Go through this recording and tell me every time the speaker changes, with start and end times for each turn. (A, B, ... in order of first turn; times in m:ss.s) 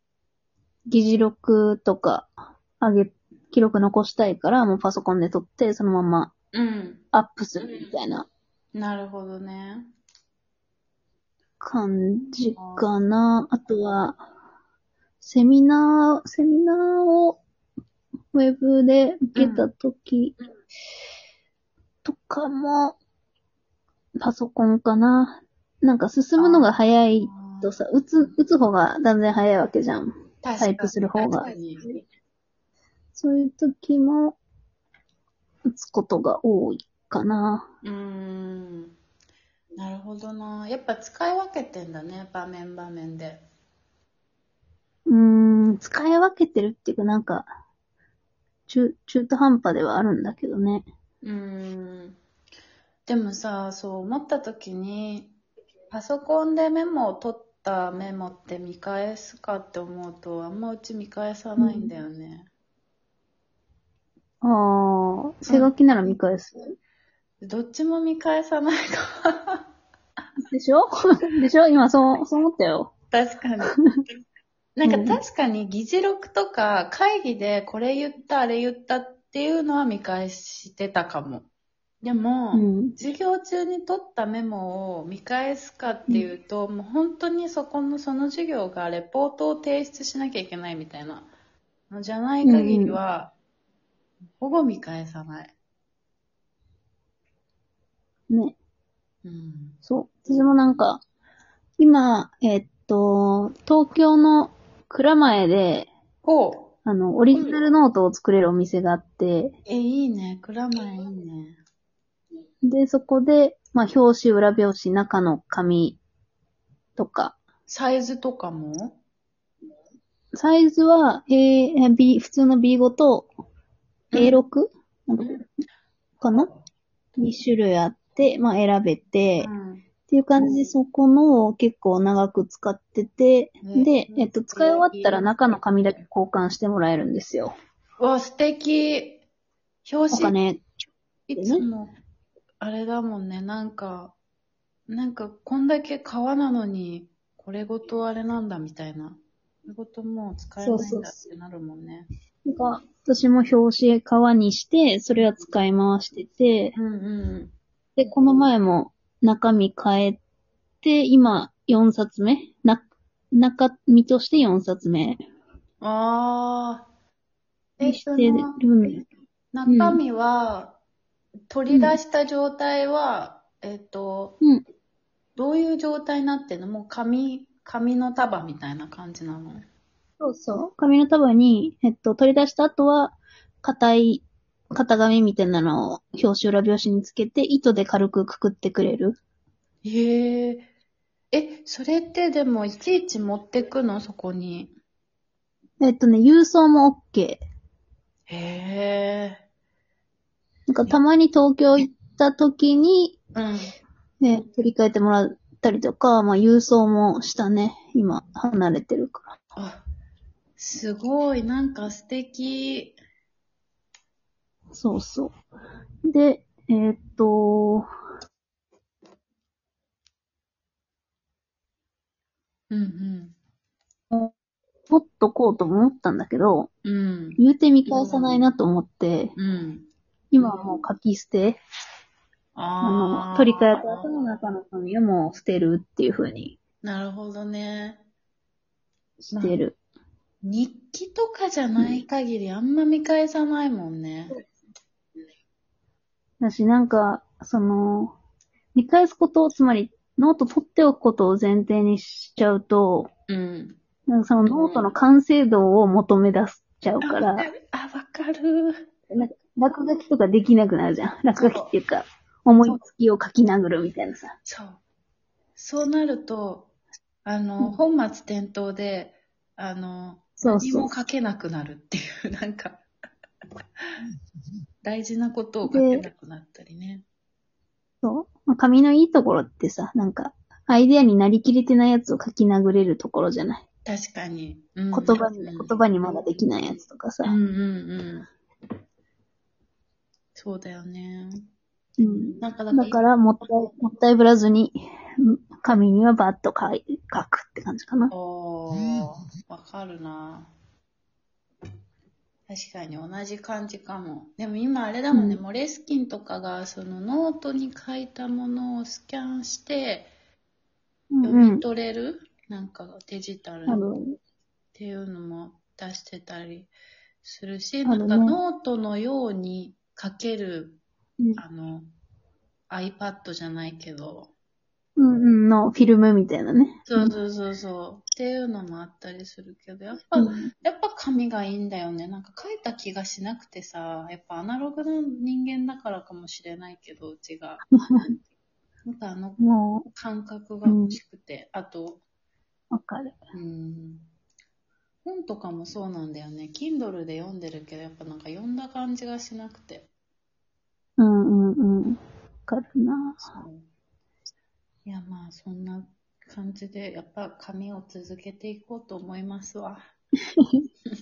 0:00.9-0:06.3 A
0:06.5-0:07.0 B
0:07.1-0:08.3 A
0:08.7-0:09.9 B
0:11.6-0:14.2 A
0:12.6-0:12.9 B
0:15.2-0:17.4 A
0:18.3-0:20.4 A
0:19.3-0:19.7 B
0:22.0-0:23.0 A
0:24.2-0:32.0 A
0:26.4-0:27.8 B
0:30.4-0:31.9 B
0:33.1-0:34.4 A
0:35.7-0:37.7 A
0:37.8-0:38.9 B
0:39.8-0:43.4 B
0:45.1-0:47.5 A
0:48.7-0:50.9 A
0:51.2-0:52.2 B
0:53.0-0:55.4 B
0:55.9-1:02.5 B
1:01.6-1:01.9 A
1:04.4-1:06.6 A
1:05.4-1:05.7 B
1:07.4-1:09.6 B
1:10.4-1:12.9 A
1:13.1-1:13.8 B
1:14.8-1:21.5 B
1:14.9-1:15.2 A
1:22.0-1:31.3 B
1:22.5-1:22.9 A
1:31.9-1:33.3 B
1:32.4-1:33.0 A
1:34.4-1:35.5 B
1:38.3-1:38.6 A
1:39.2-1:39.8 B
1:39.8-1:41.0 A
1:41.8-1:45.9 A
1:46.2-1:46.7 B
1:46.8-1:49.5 A
1:47.3-1:47.6 B
1:49.6-1:51.6 B
1:52.6-1:56.0 A
1:57.0-1:57.4 A
1:57.7-1:59.0 B
2:00.3-2:03.3 A
2:04.1-2:04.4 B
2:04.1-2:05.4 A
2:06.2-2:06.5 A
2:07.2-2:09.5 A
2:09.4-2:09.8 B
2:10.1-2:17.5 A
2:13.6-2:15.3 B
2:18.0-2:19.2 B
2:19.8-2:20.3 B
2:20.1-2:20.6 A
2:21.3-2:21.9 B
2:21.4-2:21.6 A
2:22.6-2:24.2 B
2:24.9-2:32.0 B
2:30.6-2:31.1 A
2:32.4-2:36.7 A
2:36.7-2:37.5 B
2:38.0-2:40.2 A
2:40.8-2:45.2 A
2:45.8-2:46.9 B
2:47.8-2:48.6 B
2:47.8-2:49.0 A
2:49.5-2:50.8 B
2:49.7-2:50.0 A
2:51.5-2:54.4 B
2:51.7-2:52.0 A
2:55.4-2:59.6 B
3:00.2-3:09.2 A
3:09.8-3:10.7 B
3:11.3-3:14.7 B
3:15.8-3:17.4 A
3:18.3-3:19.4 B
3:20.7-3:23.2 A
3:23.3-3:23.7 B
3:24.2-3:29.4 A
3:29.5-3:29.8 B
3:30.6-3:33.0 B
3:34.7-3:35.3 A
3:36.0-3:37.9 A
3:42.7-3:43.4 B
3:44.9-3:46.7 A
3:46.8-3:48.4 B
3:47.4-3:49.3 A
3:49.4-3:49.9 B
3:50.3-3:51.6 A
3:52.5-3:54.1 B
3:52.8-3:56.6 A
3:56.8-3:58.0 B
3:59.2-3:59.8 A
3:59.3-3:59.6 B
4:00.4-4:04.4 B
4:06.4-4:08.1 A
4:08.7-4:13.1 A
4:13.3-4:13.8 B
4:14.1-4:17.5 A
4:14.4-4:14.9 B
4:17.0-4:18.8 B
4:19.1-4:24.3 A
4:21.4-4:21.7 B
4:24.4-4:24.8 B
4:25.6-4:26.7 B
4:27.2-4:32.8 B
4:30.4-4:30.9 A
4:34.8-4:37.0 B
4:35.7-4:36.0 A
4:38.0-4:43.6 A
4:43.8-4:45.7 B
4:44.9-4:47.3 A
4:47.2-4:48.3 B
4:50.3-4:51.3 B
4:52.0-4:58.1 A
4:52.0-4:53.0 B
4:58.1-5:00.5 B
5:02.5-5:10.1 B
5:05.1-5:05.4 A
5:11.1-5:11.6 A
5:11.2-5:13.8 B
5:13.7-5:14.2 A
5:14.7-5:16.7 B
5:17.2-5:20.8 B
5:17.8-5:18.4 A
5:21.4-5:21.9 B
5:22.7-5:24.3 B
5:25.0-5:27.1 A
5:26.9-5:37.6 B
5:30.2-5:30.5 A
5:37.7-5:38.2 A
5:38.8-5:42.0 B
5:39.4-5:39.9 A
5:40.6-5:41.0 A
5:42.7-5:43.2 A
5:43.3-5:44.1 B
5:45.0-5:49.9 B
5:51.0-5:53.3 A
5:53.2-5:53.7 B
5:54.8-5:59.8 B